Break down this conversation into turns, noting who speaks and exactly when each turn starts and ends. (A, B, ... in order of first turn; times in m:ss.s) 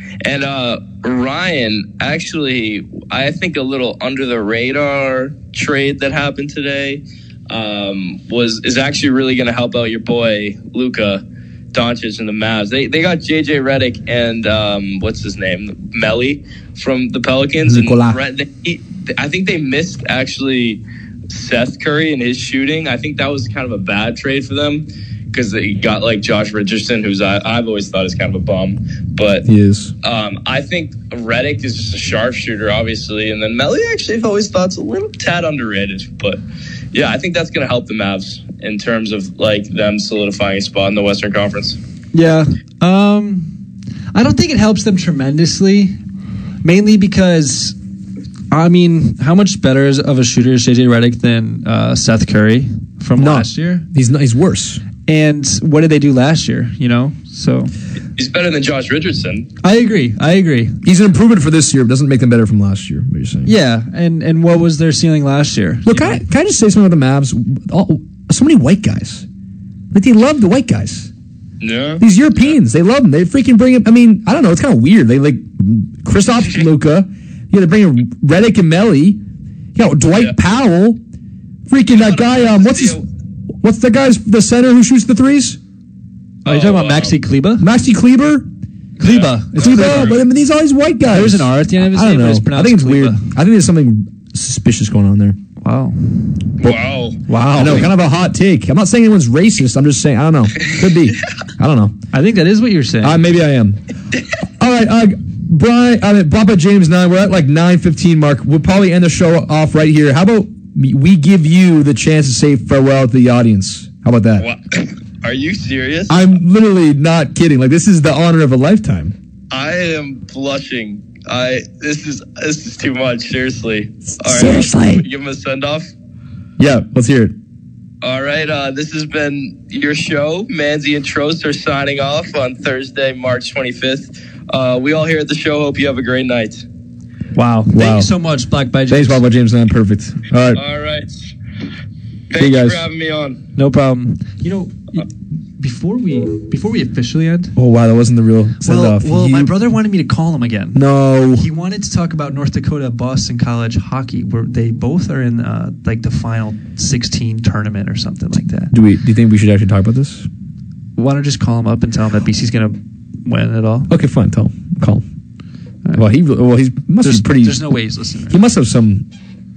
0:00.2-0:29.5 A
0:17.7-0:18.2 B
0:29.4-0:29.9 B
0:30.0-0:36.4 A
0:36.9-0:41.8 A
0:42.1-0:43.6 C
0:44.1-0:46.0 C
0:46.6-0:47.8 C
0:48.5-0:53.8 C
0:53.2-0:54.8 B
0:55.1-0:57.7 C
0:58.2-0:59.5 A
0:59.6-1:00.8 C
1:00.8-1:03.5 B
1:03.4-1:06.2 C
1:05.9-1:09.3 B
1:09.9-1:11.1 B
1:11.6-1:12.0 A
1:12.0-1:19.2 B
1:19.8-1:21.0 B
1:21.7-1:23.0 B
1:21.9-1:23.0 A
1:23.6-1:25.6 B
1:26.4-1:27.7 C
1:26.4-1:27.2 A
1:27.6-1:28.5 B
1:29.0-1:30.2 C
1:29.0-1:30.2 A
1:29.6-1:35.4 B
1:31.1-1:33.2 C
1:35.6-1:36.3 C
1:36.6-1:37.2 A
1:37.3-1:37.9 C
1:37.6-1:42.0 B
1:42.1-1:43.2 C
1:43.0-1:43.8 B
1:44.6-1:54.5 B
1:54.4-1:56.2 A
1:56.1-1:59.2 B
1:59.5-2:05.9 A
2:04.2-2:05.0 B
2:06.6-2:07.3 B
2:08.0-2:16.6 A
2:17.4-2:19.2 C
2:17.7-2:18.1 B
2:18.9-2:20.6 B
2:20.5-2:21.2 A
2:22.3-2:23.4 A
2:22.4-2:22.8 B
2:23.6-2:25.1 C
2:25.6-2:27.6 C
2:27.6-2:29.6 B
2:28.6-2:30.8 C
2:30.8-2:31.5 B
2:31.3-2:38.7 C
2:38.7-2:40.3 B
2:41.0-2:43.9 C
2:43.9-2:45.0 B
2:45.9-2:47.6 B
2:47.0-2:48.4 C
2:48.3-2:49.1 B